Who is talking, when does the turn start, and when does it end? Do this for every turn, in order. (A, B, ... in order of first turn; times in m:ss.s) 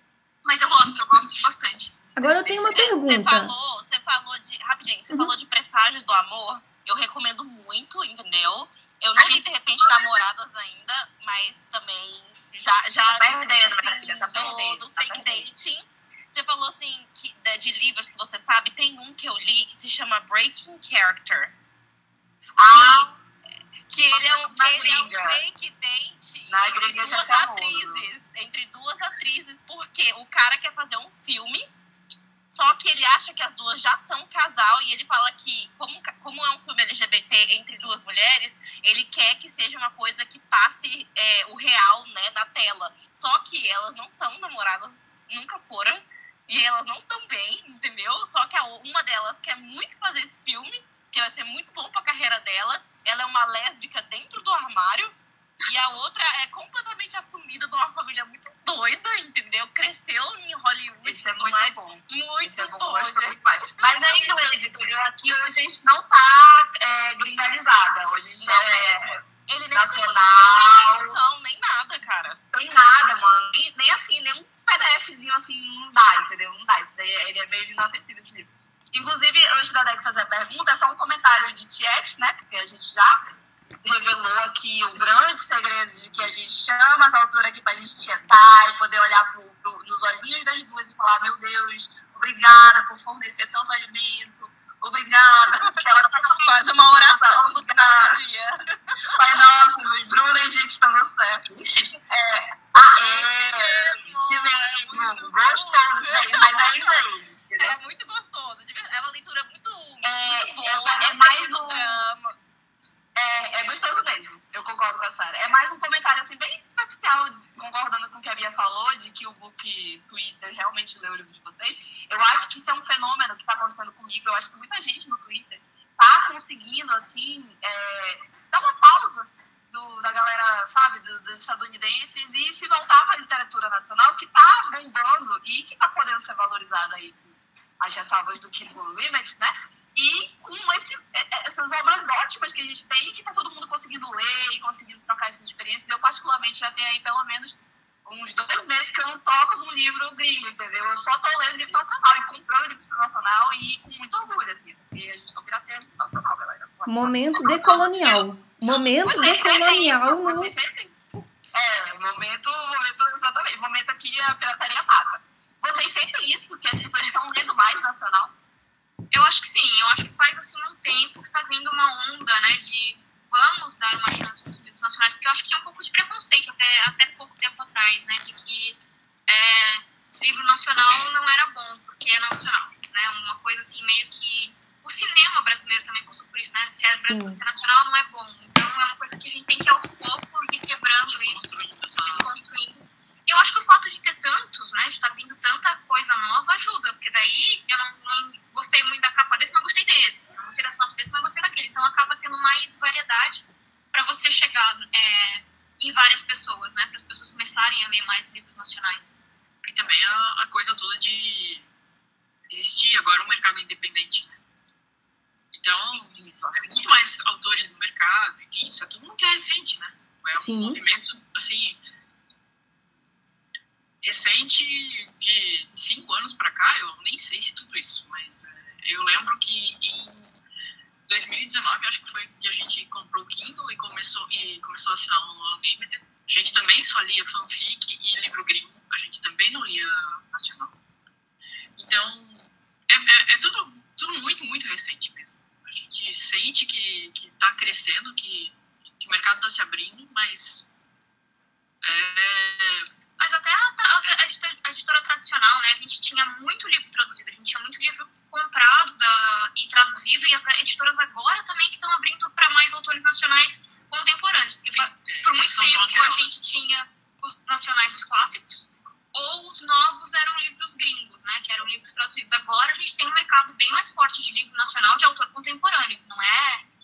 0:00.4-0:02.7 A
0:02.2-0:03.6 B
0:02.6-0:21.5 C
0:09.2-0:10.2 A
0:13.0-0:15.5 D
0:22.6-0:23.2 D
0:22.7-0:23.1 C
0:23.9-0:31.7 C
0:24.1-0:25.4 D
0:26.5-0:28.1 D
0:32.5-1:03.9 C
1:01.0-1:11.1 D
1:08.4-1:12.4 C
1:12.5-1:23.2 D
1:23.8-1:38.2 D
1:35.7-1:39.2 C
1:39.2-1:41.5 D
1:41.5-1:42.0 E
1:42.1-1:47.8 D
1:43.0-1:47.0 C
1:47.6-1:52.4 C
1:50.0-1:52.1 D
1:53.2-2:37.8 D
1:53.4-1:54.2 C
2:36.9-2:40.5 B
2:37.4-2:38.8 A
2:39.0-2:41.0 D
2:41.5-2:48.3 D
2:49.1-3:29.2 A
3:07.0-3:07.4 B
3:11.0-3:12.4 E
3:29.6-3:31.7 E
3:32.5-3:34.4 E
3:35.5-3:41.8 E
3:36.1-3:36.6 D
3:40.4-3:40.8 B
3:44.0-3:50.4 E
3:51.1-4:00.7 E
4:01.8-4:10.7 E
4:11.8-4:12.9 E
4:13.2-4:36.6 A
4:24.7-4:26.3 E